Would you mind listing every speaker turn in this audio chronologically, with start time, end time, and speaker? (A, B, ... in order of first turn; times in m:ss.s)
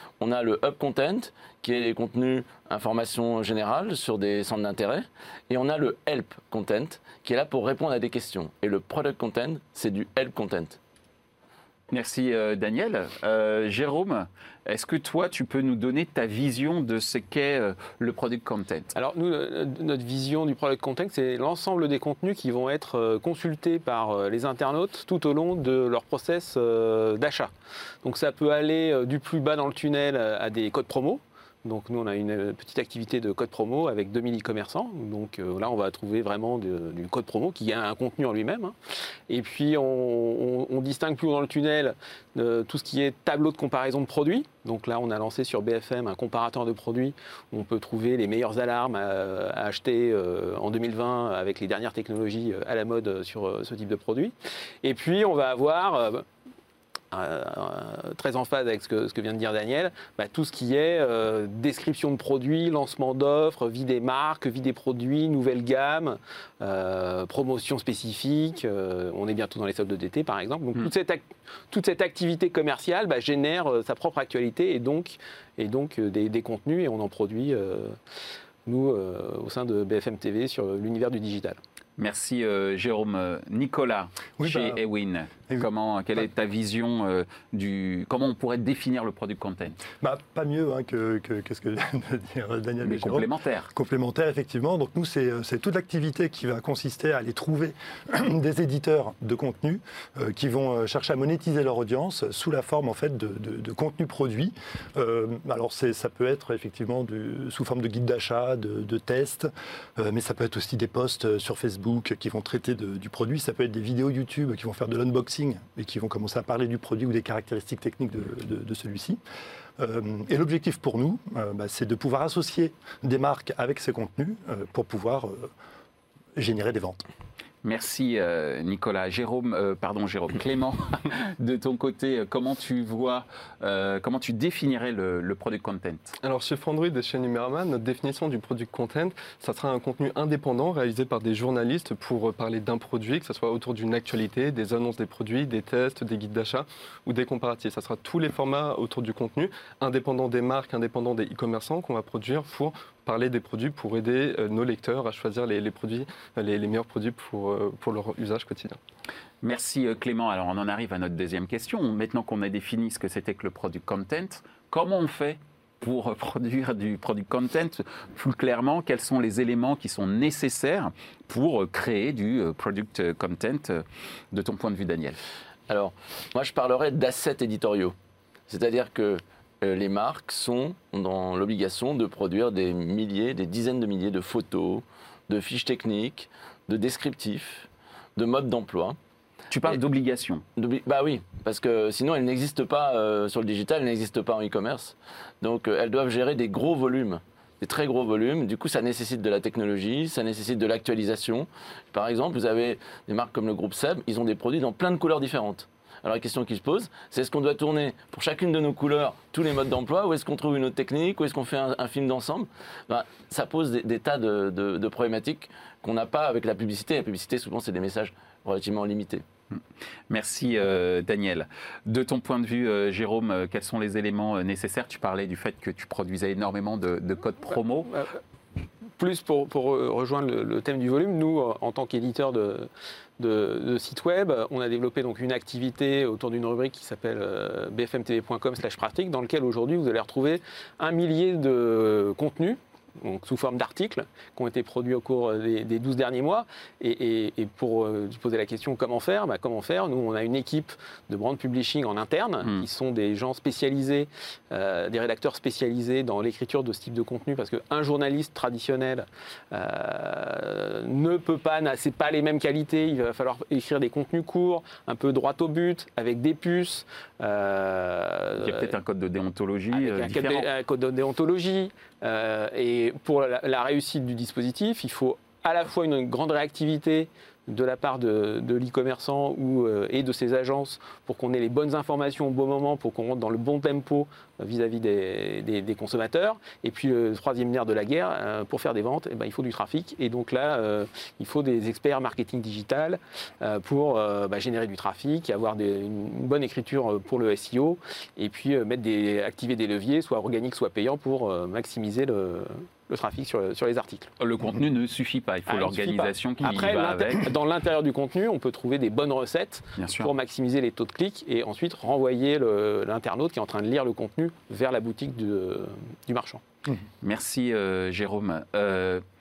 0:00.2-0:10.8 A
0:11.9-0:18.9 B
0:19.0-0:27.5 C
0:28.0-0:38.8 C
0:39.3-0:56.3 C
0:57.1-1:18.0 C
1:18.7-1:21.6 C
1:22.0-1:29.8 B
1:24.4-1:24.8 D
1:30.0-1:59.2 D
1:32.8-1:33.7 B
1:59.8-2:05.5 D
2:06.4-2:07.0 D
2:07.6-2:16.2 B
2:16.2-2:38.8 E
2:39.4-2:55.2 B
2:55.7-2:58.0 A
2:58.5-3:09.0 A
3:09.5-3:10.4 B
3:10.6-3:39.2 A
3:39.6-3:48.0 B
3:49.0-4:28.7 C
4:28.4-4:30.5 B
4:29.7-5:04.1 C
5:04.2-5:07.3 B
5:05.5-5:16.4 C
5:09.8-5:10.1 B
5:17.0-5:19.0 B